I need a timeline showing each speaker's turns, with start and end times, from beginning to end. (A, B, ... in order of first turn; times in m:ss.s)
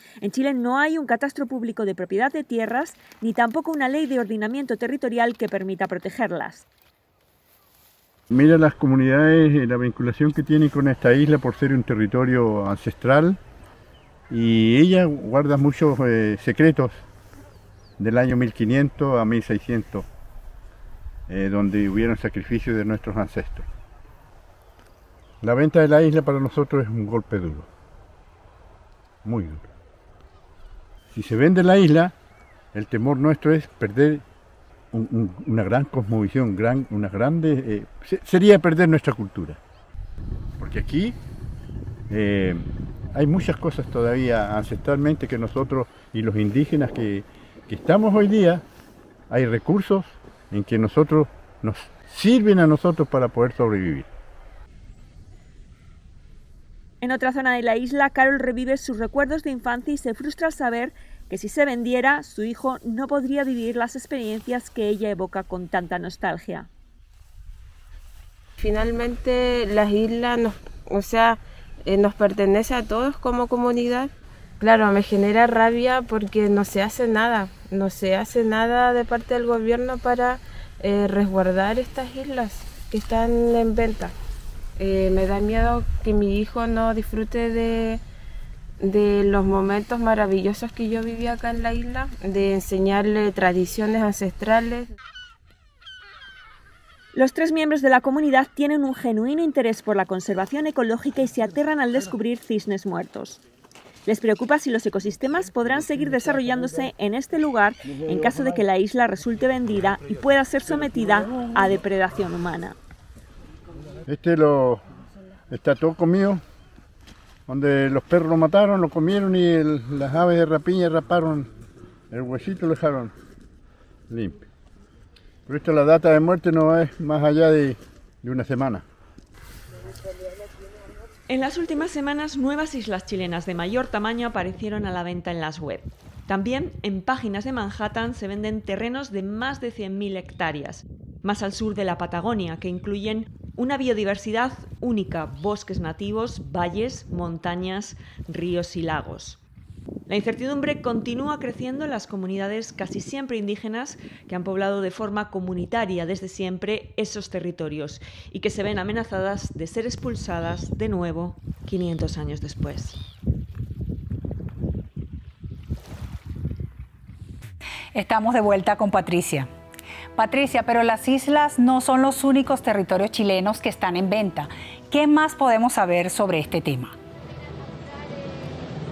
0:00.2-0:06.6 A
0:08.3-0:13.4 B
0:14.3-0:17.0 B
0:18.0-0:20.1 B
0:21.3-0:23.7 B
0:25.4-0:27.7 B
0:29.2-0:29.7 B
0:31.1-0:32.1 B
0:32.7-0:34.2 B
0:34.9-0:39.6 B
0:40.6-0:41.2 B
0:42.1-0:48.6 B
0:49.3-0:54.1 B
0:57.0-1:06.7 A
1:08.6-1:24.2 C
1:24.8-1:28.0 C
1:28.8-1:34.9 C
1:37.1-1:43.4 A
1:44.1-1:52.8 A
1:54.1-1:54.8 B
1:55.5-1:56.4 B
1:57.5-2:01.5 B
2:02.1-2:03.1 B
2:04.1-2:04.4 B
2:05.5-2:08.8 B
2:11.3-2:29.4 A
2:30.1-2:43.0 A
2:47.9-2:49.5 D
2:50.2-2:57.0 D